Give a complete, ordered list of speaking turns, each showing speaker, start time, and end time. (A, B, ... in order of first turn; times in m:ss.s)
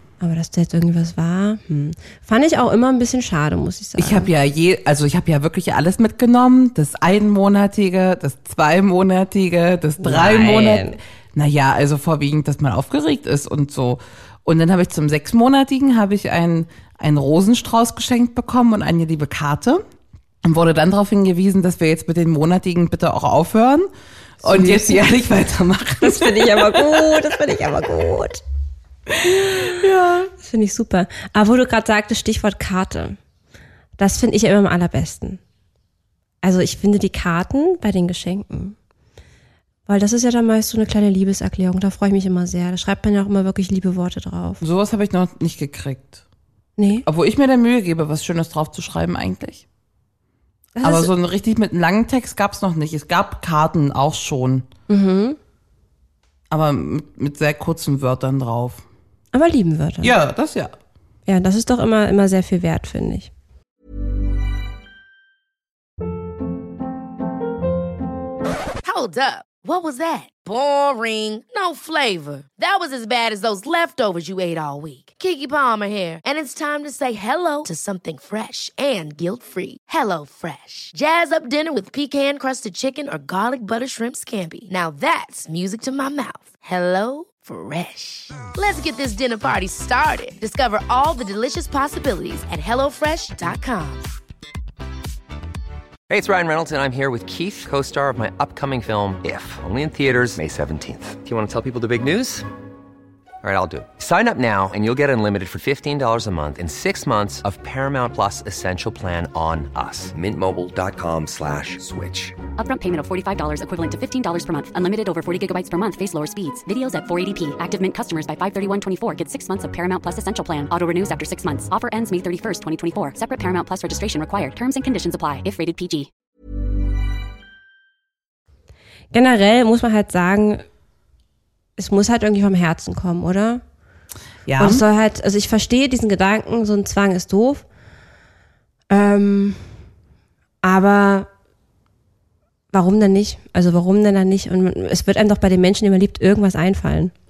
0:00.2-0:04.3 A
0:04.0-0:19.8 B
0:10.0-0:11.0 A
0:20.4-0:23.9 B
0:24.4-0:27.0 B
0:24.4-0:25.0 A
0:26.0-0:28.4 A
0:29.1-0:30.3 B
0:29.4-0:29.8 A
0:30.4-0:33.2 A
0:34.0-0:35.4 A
0:36.4-0:38.8 A
0:39.9-0:44.6 A
0:44.6-0:46.2 B
0:46.8-0:47.1 A
0:47.0-0:49.6 B
0:50.8-0:51.1 A
0:50.8-0:54.7 B
0:54.9-0:55.4 A
0:56.5-0:58.8 B
0:59.3-1:00.1 A
1:00.0-1:00.7 B
1:01.3-1:03.3 A
1:08.8-1:34.1 C
1:36.1-1:42.5 D
1:43.4-1:52.4 D
1:52.6-2:06.1 E
2:09.1-2:10.6 A
2:11.8-2:13.6 A
2:14.5-2:14.8 B
2:14.6-2:17.6 A
2:18.9-2:19.6 A
2:20.6-2:21.3 A
2:22.7-2:27.1 A